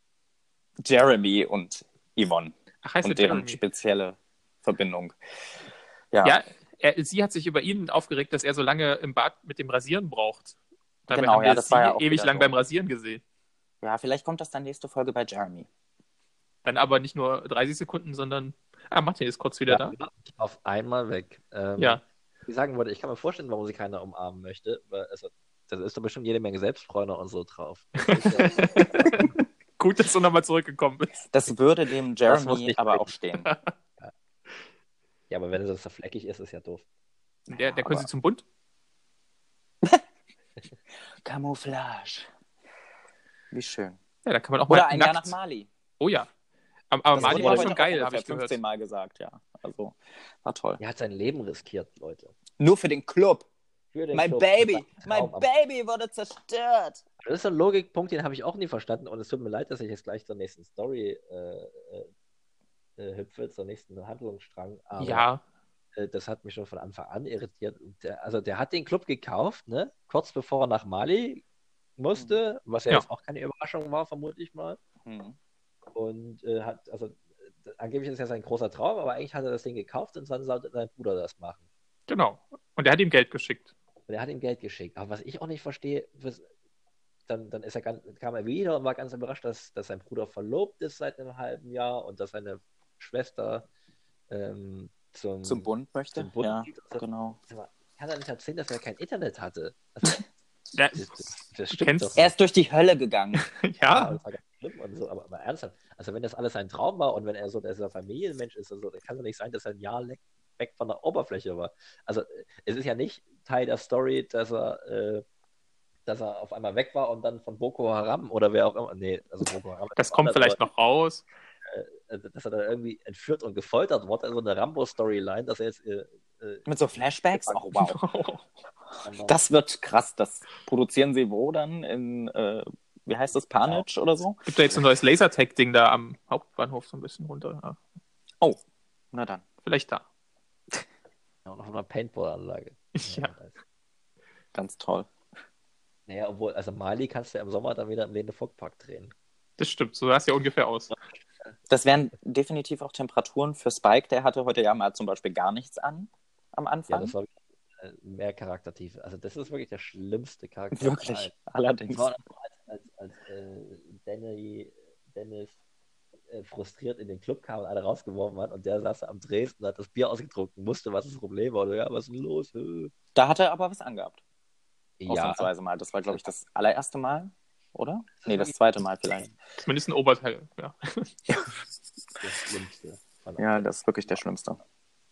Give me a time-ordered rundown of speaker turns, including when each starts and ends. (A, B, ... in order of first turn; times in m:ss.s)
0:00.8-0:05.2 A
0:02.8-0:03.6 B
0:06.1-0:06.4 A
0:06.2-0:10.6 B
0:11.1-0:13.2 B
0:11.1-0:12.6 A
0:13.8-0:15.7 A
0:16.6-0:19.9 B
0:19.7-0:29.3 C
0:28.1-0:31.2 B
0:31.3-0:33.5 A
0:32.3-0:33.1 C
0:33.4-0:33.7 B
0:35.3-0:36.9 C
0:37.5-0:38.1 A
0:37.5-0:38.4 B
0:41.2-0:42.3 A
0:43.5-0:44.0 A
0:44.2-0:45.4 B
0:44.7-0:45.7 A
0:46.0-0:46.3 B
0:46.9-0:48.6 B
0:47.2-0:50.8 A
0:47.2-0:47.7 C
0:50.8-0:52.3 C
0:52.6-0:53.5 A
0:53.9-0:55.5 C
0:54.1-0:57.0 A
0:57.2-1:02.1 C
1:03.0-1:05.3 C
1:05.0-1:05.4 B
1:06.0-1:11.4 C
1:12.0-1:14.8 C
1:15.0-1:15.4 A
1:15.9-1:21.6 C
1:22.1-1:23.7 B
1:24.1-1:26.5 C
1:27.3-1:33.7 C
1:34.3-1:40.2 C
1:35.4-1:37.4 A
1:40.7-1:42.1 B
1:40.9-1:42.3 C
1:42.2-1:43.4 A
1:43.4-1:44.2 B
1:43.9-1:55.2 C
1:56.1-2:00.6 C
2:00.0-2:01.2 B
2:01.7-2:07.7 C
2:06.7-2:08.0 A
2:07.8-2:08.4 B
2:09.0-2:09.4 C
2:09.3-2:14.7 A
2:14.5-2:17.8 B
2:19.1-2:19.4 A
2:19.6-2:20.0 B
2:21.5-2:23.6 C
2:23.0-2:23.3 B
2:24.5-2:25.1 A
2:26.1-2:29.1 C
2:29.6-2:30.9 B
2:31.7-2:37.1 A
2:36.9-2:41.3 C
2:40.7-2:42.1 A
2:41.9-2:45.6 C
2:46.3-2:52.9 C
2:53.2-2:54.2 A
2:55.0-2:55.5 C
2:55.1-2:59.3 A
2:58.2-2:58.6 C
2:59.6-3:01.1 B
3:02.2-3:04.2 C
3:03.4-3:04.6 A